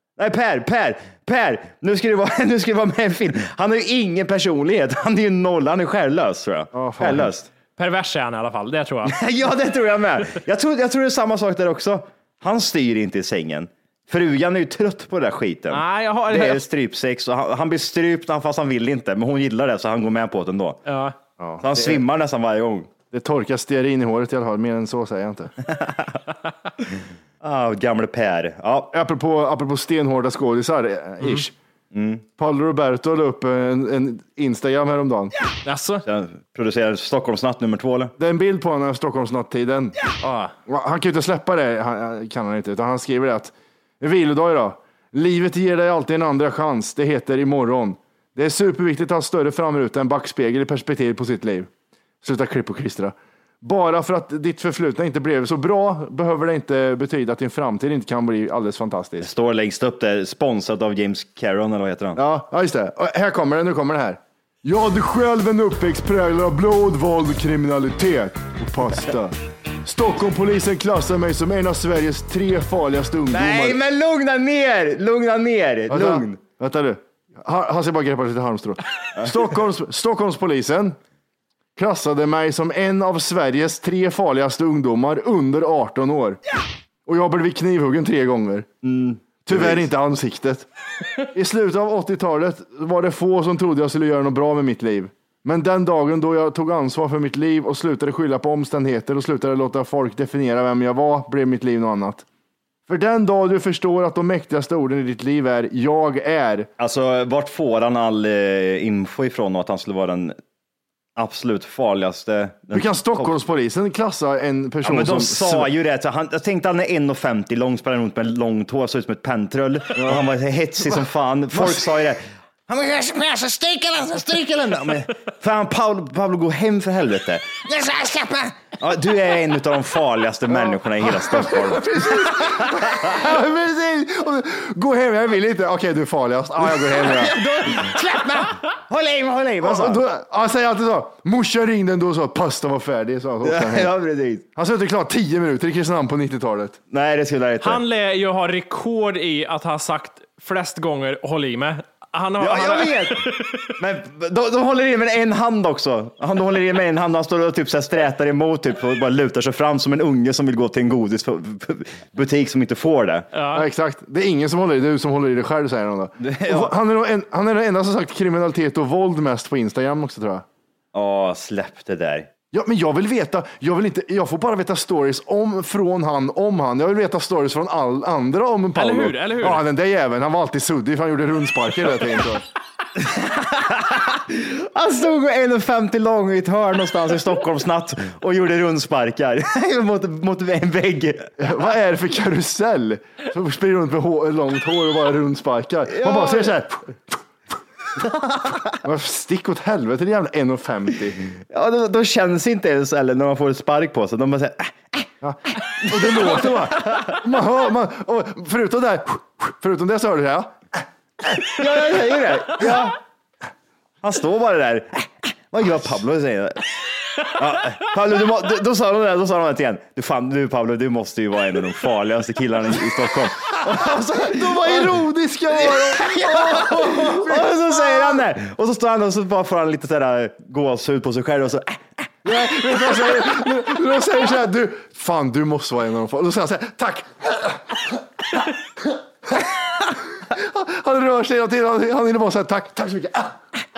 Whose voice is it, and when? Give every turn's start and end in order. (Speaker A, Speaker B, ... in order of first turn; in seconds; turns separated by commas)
Speaker A: 0.2-7.5, Speaker B: 6.7-7.3, Speaker C: 7.8-9.1, Speaker A: 9.1-20.8, Speaker C: 15.7-16.6, Speaker C: 20.9-21.1, Speaker B: 21.4-22.0, Speaker A: 21.6-22.9, Speaker B: 23.1-25.5, Speaker A: 25.7-26.2, Speaker A: 27.4-28.9, Speaker B: 28.9-31.5, Speaker A: 31.9-32.2, Speaker B: 32.4-35.3, Speaker C: 35.6-36.0, Speaker A: 36.0-38.1, Speaker B: 38.2-39.9, Speaker C: 40.2-40.5, Speaker B: 40.7-51.7, Speaker B: 52.2-59.3, Speaker A: 59.2-62.2, Speaker B: 62.1-73.8, Speaker A: 73.3-76.4, Speaker B: 75.9-81.0, Speaker A: 79.2-79.5, Speaker B: 81.8-86.4, Speaker B: 87.0-88.7, Speaker A: 88.8-89.8, Speaker B: 89.5-90.7, Speaker B: 91.3-102.2, Speaker B: 102.9-106.7, Speaker A: 106.8-110.3, Speaker A: 111.2-113.3, Speaker B: 112.7-115.7, Speaker A: 114.8-133.2, Speaker B: 120.0-120.2, Speaker B: 121.5-121.9, Speaker B: 130.5-137.4, Speaker A: 136.7-140.0, Speaker B: 139.6-143.9, Speaker A: 143.4-144.4, Speaker B: 144.6-146.8, Speaker A: 146.9-147.8, Speaker C: 147.6-153.7, Speaker A: 152.4-163.3, Speaker C: 163.3-163.7, Speaker B: 163.5-170.4, Speaker A: 166.2-166.7, Speaker A: 170.9-172.3, Speaker B: 172.5-182.4, Speaker C: 178.7-179.6, Speaker A: 183.0-191.3, Speaker B: 191.4-197.2, Speaker A: 195.9-196.6, Speaker A: 198.0-198.8, Speaker B: 198.8-201.2, Speaker A: 201.5-205.1, Speaker B: 205.2-210.6, Speaker A: 205.8-207.1, Speaker A: 211.3-213.0, Speaker A: 214.0-216.6, Speaker A: 217.2-225.0, Speaker B: 223.7-227.9, Speaker A: 225.7-231.8, Speaker B: 232.2-237.8, Speaker B: 240.3-243.4